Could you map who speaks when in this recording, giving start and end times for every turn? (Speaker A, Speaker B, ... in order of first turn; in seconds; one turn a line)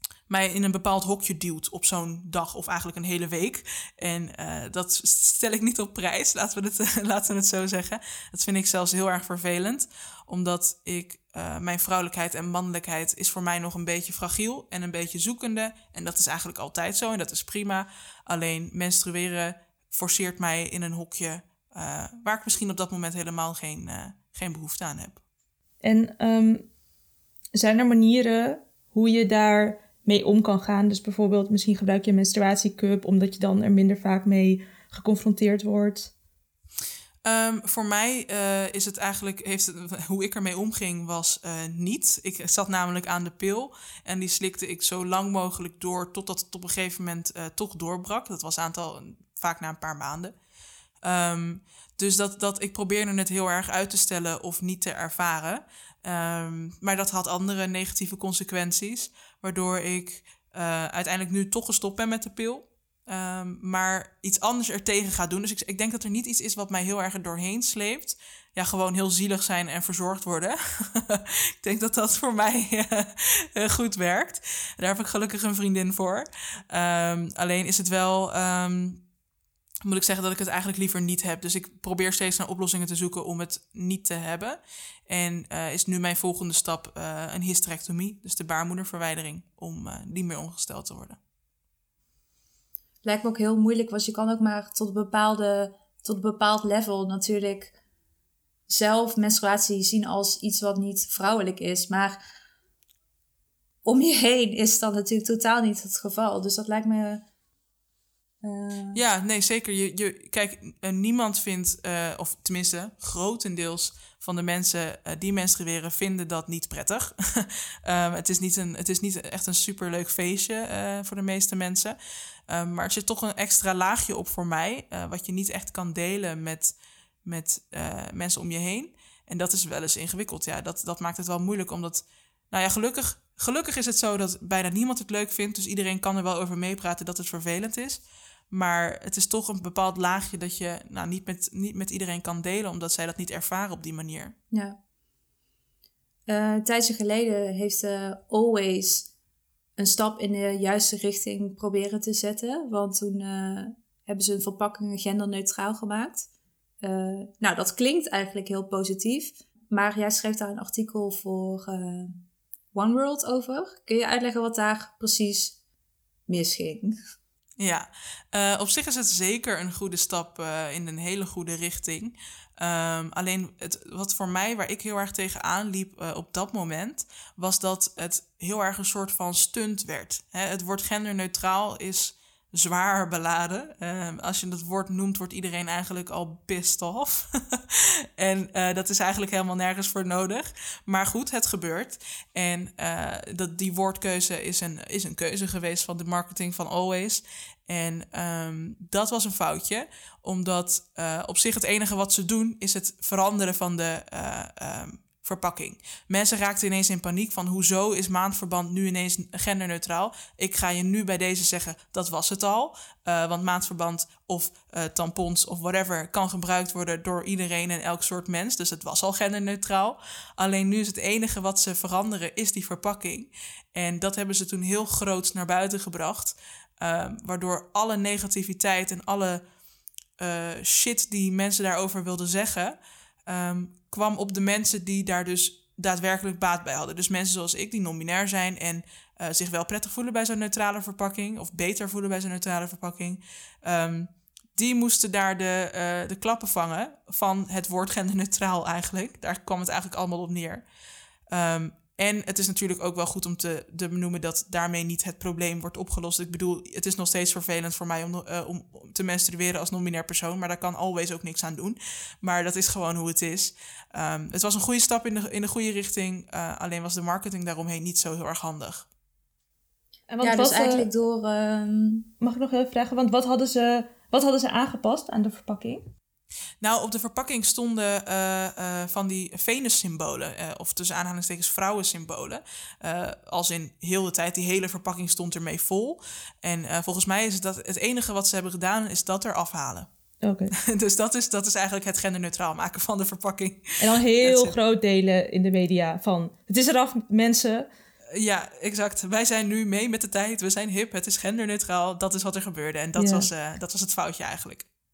Speaker A: 0.3-25.2
Speaker B: 25.8-26.7
Speaker B: 27.5-36.1
Speaker A: 37.2-50.4
Speaker A: 51.0-79.0
Speaker A: 79.8-91.2
Speaker C: 93.0-97.7
Speaker C: 98.7-102.2
Speaker C: 103.8-107.2
Speaker C: 108.4-109.0
Speaker A: 108.9-122.0
Speaker A: 122.5-144.3
Speaker C: 144.5-144.8
Speaker C: 146.3-149.1
Speaker C: 149.8-156.3
Speaker C: 156.8-162.2
Speaker C: 162.7-165.6
Speaker C: 166.3-167.0
Speaker A: 167.6-229.4
Speaker A: 230.2-250.6
Speaker A: 251.3-268.9
Speaker B: 270.1-270.9
Speaker C: 270.2-272.1
Speaker B: 272.2-275.8
Speaker A: 276.6-289.9
Speaker B: 290.2-290.5
Speaker A: 290.6-294.6
Speaker B: 293.8-297.7
Speaker A: 298.1-304.7
Speaker B: 303.0-303.3